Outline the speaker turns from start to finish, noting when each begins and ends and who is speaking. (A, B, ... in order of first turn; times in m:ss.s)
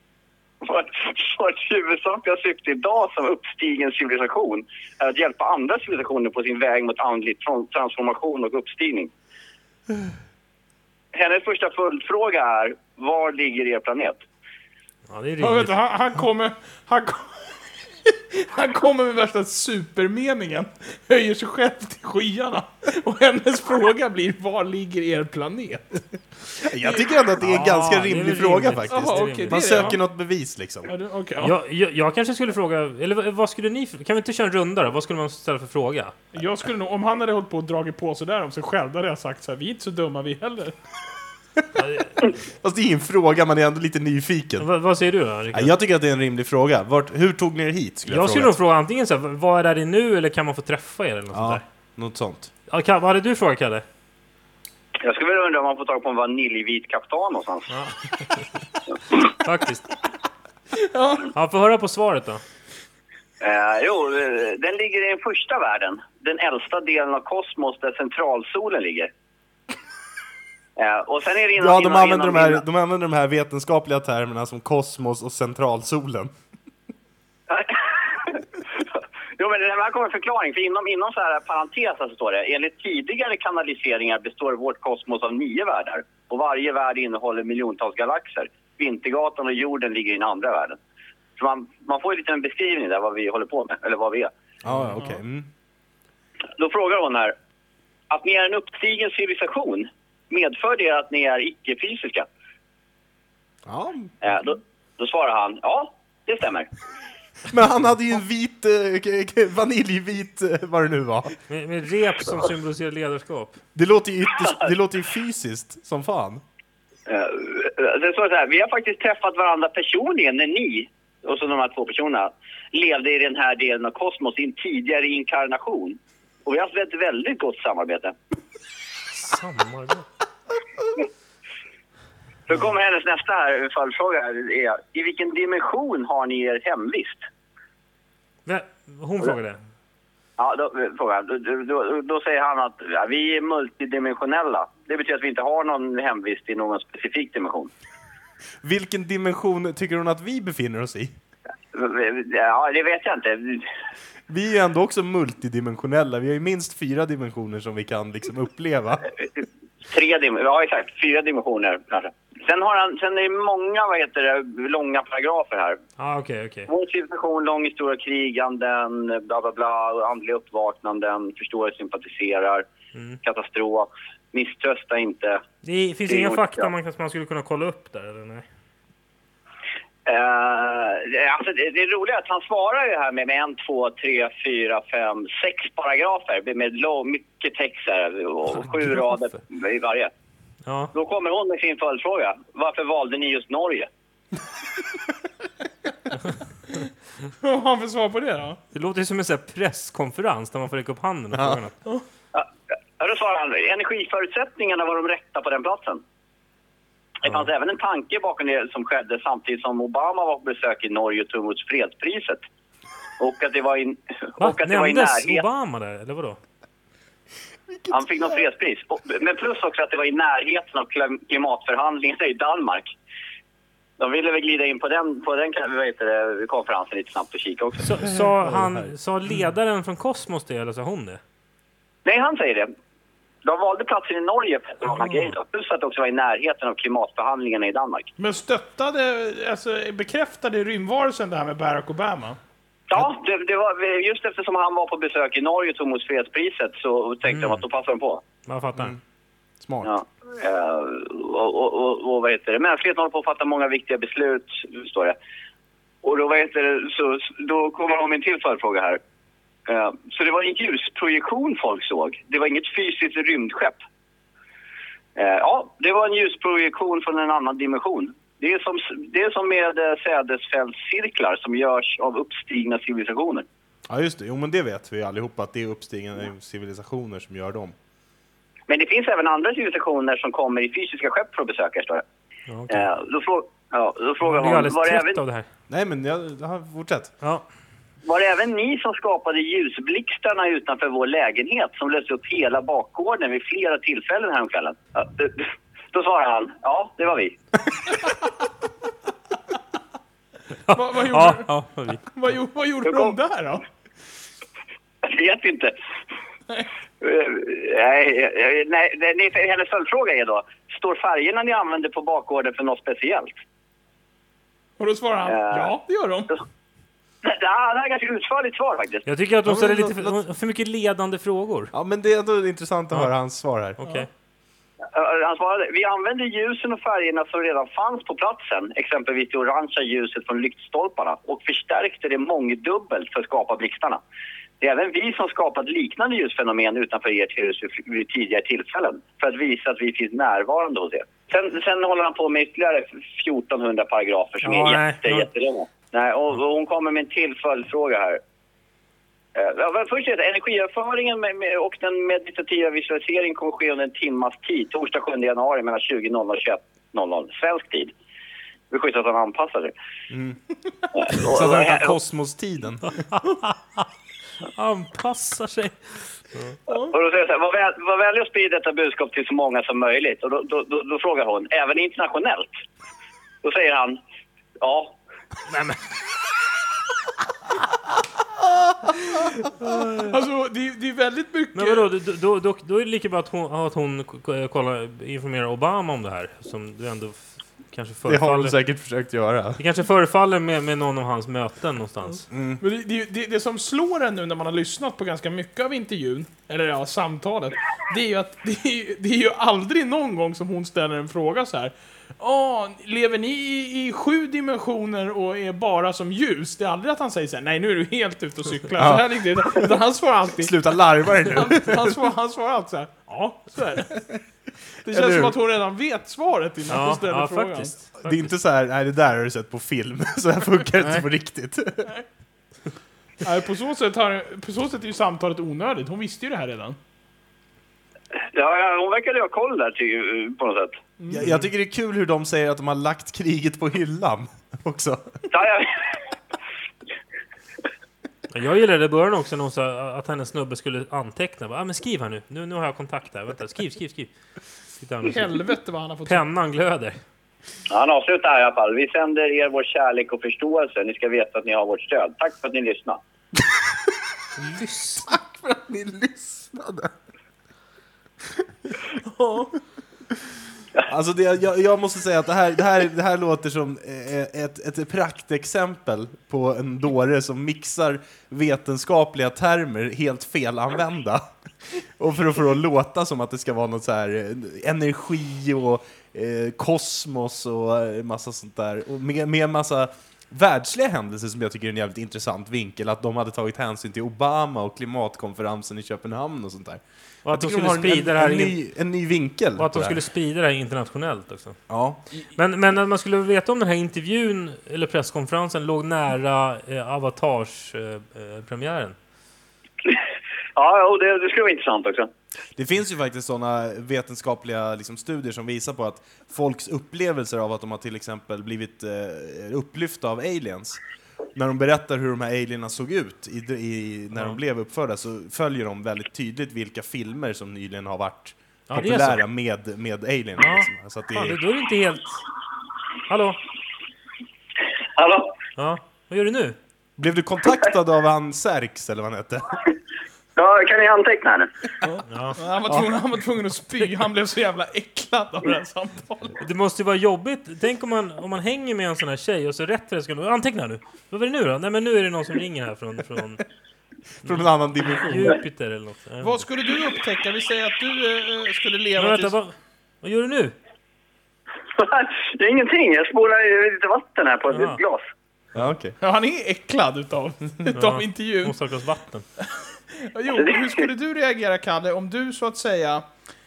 0:00.6-0:09.1 A
0:11.1-0:14.2 A
0:15.1-0:15.7 B
0:15.4-0:26.0 C
0:26.6-0:30.9 D
0:27.4-0:30.0 B
0:28.9-0:30.0 C
0:30.9-0:31.5 C
0:31.4-0:36.2 B
0:36.3-0:40.7 C
0:41.8-0:42.1 B
0:42.2-0:44.6 D
0:44.6-0:45.8 B
0:45.5-0:48.5 D
0:48.1-0:51.6 B
0:51.3-0:52.5 D
0:52.7-0:53.8 B
0:55.0-0:57.7 A
0:57.7-0:58.4 B
0:59.1-0:59.9 B
1:00.8-1:01.3 C
1:01.3-1:02.4 B
1:03.4-1:09.1 A
1:10.8-1:12.6 A
1:11.6-1:16.3 D
1:17.5-1:30.8 A
1:31.4-1:34.3 A
1:34.6-1:35.5 D
1:36.6-1:37.3 A
1:38.1-1:42.3 A
1:43.6-1:44.1 D
1:44.2-1:46.7 A
1:47.5-1:51.4 D
1:51.5-1:53.6 B
1:53.7-1:56.4 D
1:57.1-2:08.1 A
2:09.1-2:10.0 B
2:12.5-2:17.2 A
2:18.4-2:19.6 B
2:20.4-2:27.7 A
2:28.6-2:31.1 D
2:31.7-2:33.7 A
2:34.3-2:39.1 D
2:39.9-2:45.8 A
2:46.0-2:46.7 B
2:46.7-2:52.6 A
2:53.2-2:55.4 A
2:55.6-2:58.4 B
2:56.1-2:56.7 A
3:00.0-3:10.1 A
3:10.6-3:10.9 B
3:10.9-3:13.9 A
3:17.4-3:18.6 C
3:18.7-3:21.8 B
3:21.3-3:21.6 D
3:23.0-3:26.0 A
3:27.2-3:32.4 A
3:33.2-3:35.4 A
3:34.4-3:36.4 B
3:37.7-3:38.0 D
3:37.9-3:42.9 A
3:44.0-3:47.9 A
3:47.8-3:51.2 B
3:48.0-3:48.9 D
3:52.0-3:52.7 A
3:53.4-3:58.1 A
3:54.9-3:55.3 B
3:58.2-4:02.4 C
4:02.9-4:08.2 A
4:07.3-4:07.6 B
4:08.5-4:08.9 B
4:09.6-4:09.9 D
4:09.8-4:15.2 A
4:16.0-4:19.0 A
4:19.7-4:23.8 A
4:25.2-4:33.4 A
4:33.9-4:37.7 D
4:38.7-4:42.0 A
4:42.5-4:42.9 B
4:42.7-4:45.2 A
4:44.2-4:45.4 B
4:45.7-4:47.1 D
4:48.0-4:57.4 A
5:00.7-5:02.1 B
5:00.7-5:01.5 C
5:02.1-5:03.6 C
5:02.9-5:03.1 A
5:05.0-5:05.7 A
5:07.0-5:13.3 A
5:14.8-5:16.3 C
5:15.2-5:15.7 A
5:17.2-5:19.1 A
5:19.0-5:21.7 B
5:19.4-5:20.2 D
5:21.7-5:23.8 D
5:23.8-5:24.1 B
5:24.9-5:34.0 A
5:34.6-5:48.2 A
5:44.4-5:45.3 B
5:49.3-5:57.9 A
5:58.7-5:59.7 A
6:00.1-6:00.4 D
6:00.9-6:02.0 A
6:01.1-6:03.0 D
6:03.1-6:03.8 B
6:04.4-6:06.6 B
6:06.7-6:06.9 C
6:06.9-6:12.5 A
6:13.4-6:14.0 A
6:14.6-6:15.0 A
6:15.5-6:15.8 B
6:19.9-6:21.9 C
6:21.5-6:28.6 B
6:28.0-6:29.6 D
6:29.6-6:32.2 B
6:32.3-6:32.6 D
6:32.6-6:50.5 C
6:48.8-6:49.8 D
6:50.4-6:52.1 D
6:51.3-6:54.0 C
6:54.8-6:57.7 C
6:54.9-6:55.4 D
6:56.7-6:58.3 B
6:58.0-7:01.9 D
7:03.2-7:06.8 C
7:08.3-7:10.8 A
7:11.0-7:11.3 C
7:11.1-7:15.2 D
7:11.2-7:11.5 B
7:15.3-7:16.0 A
7:18.3-7:24.1 B
7:24.8-7:25.4 B
7:25.0-7:26.2 C
7:26.0-7:27.0 B
7:27.7-7:33.0 A
7:34.4-7:35.1 B
7:35.0-7:36.9 D
7:39.0-7:39.5 C
7:40.8-8:10.0 D
8:07.2-8:08.6 B
8:09.6-8:11.6 B
8:11.7-8:12.0 D
8:12.3-8:18.9 B
8:20.6-8:22.1 A
8:22.6-8:30.8 D
8:31.3-8:41.4 D
8:38.7-8:39.2 B
8:40.4-8:42.2 B
8:43.1-8:43.4 B
8:45.0-8:45.3 A
8:45.6-8:46.6 B
8:47.0-8:49.6 D
8:50.4-8:51.5 A
8:51.8-8:56.4 C
8:52.1-8:52.4 B
8:56.4-9:03.4 B
9:04.2-9:06.4 B
9:04.2-9:05.4 D
9:06.2-9:09.3 C
9:09.0-9:10.5 B
9:11.7-9:15.0 A
9:14.5-9:14.8 B
9:15.5-9:16.0 D
9:16.0-9:18.6 C
9:17.7-9:19.2 B
9:19.4-9:23.0 C
9:20.4-9:20.8 A